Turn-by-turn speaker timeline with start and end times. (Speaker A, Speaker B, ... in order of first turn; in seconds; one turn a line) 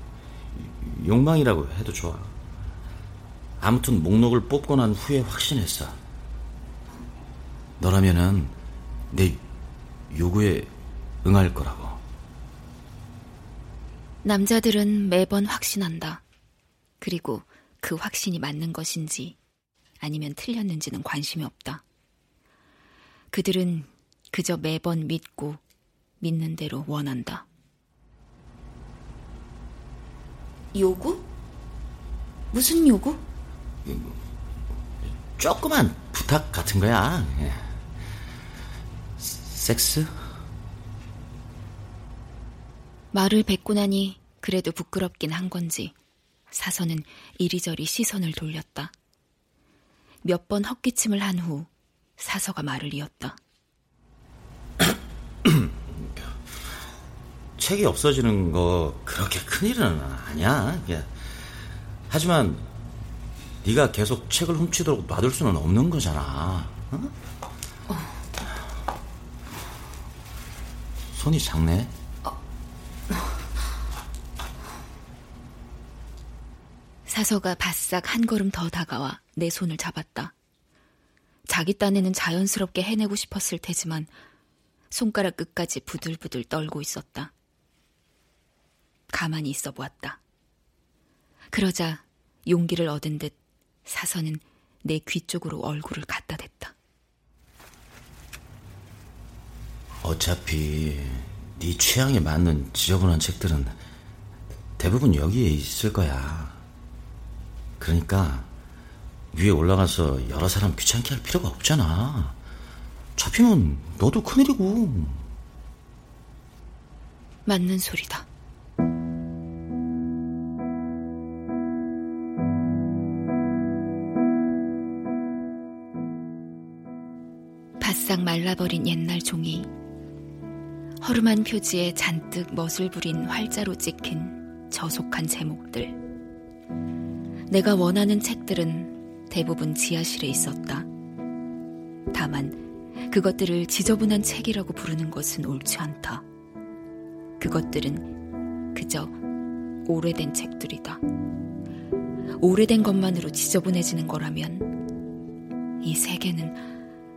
Speaker A: 0.5-2.3
Speaker A: 3.6-6.0
Speaker A: 7.8-8.6
Speaker A: 9.1-9.4
Speaker A: 10.1-10.7
Speaker A: 11.2-12.0
Speaker B: 14.2-16.2
Speaker B: 17.0-19.4
Speaker B: 20.0-21.8
Speaker B: 23.3-25.6
Speaker B: 26.2-27.4
Speaker B: 30.7-31.3
Speaker B: 32.5-33.2
Speaker A: 33.9-34.1
Speaker A: 35.4-37.7
Speaker A: 39.2-40.3
Speaker B: 43.1-45.9
Speaker B: 46.5-48.9
Speaker B: 50.2-53.4
Speaker A: 55.4-56.2
Speaker A: 57.6-61.1
Speaker A: 62.1-62.7
Speaker A: 63.6-67.1
Speaker A: 71.1-71.9
Speaker B: 77.1-80.3
Speaker B: 81.5-84.1
Speaker B: 84.9-87.3
Speaker B: 89.1-90.2
Speaker B: 91.5-93.3
Speaker B: 93.8-96.7
Speaker A: 100.0-103.7
Speaker A: 104.8-106.6
Speaker A: 107.8-108.5
Speaker A: 109.3-112.4
Speaker A: 113.2-115.2
Speaker B: 117.5-118.2
Speaker B: 127.8-129.7
Speaker B: 131.0-136.0
Speaker B: 137.5-140.9
Speaker B: 142.1-146.2
Speaker B: 147.4-148.1
Speaker B: 148.7-149.2
Speaker B: 149.9-151.0
Speaker B: 152.4-154.7
Speaker B: 155.8-156.6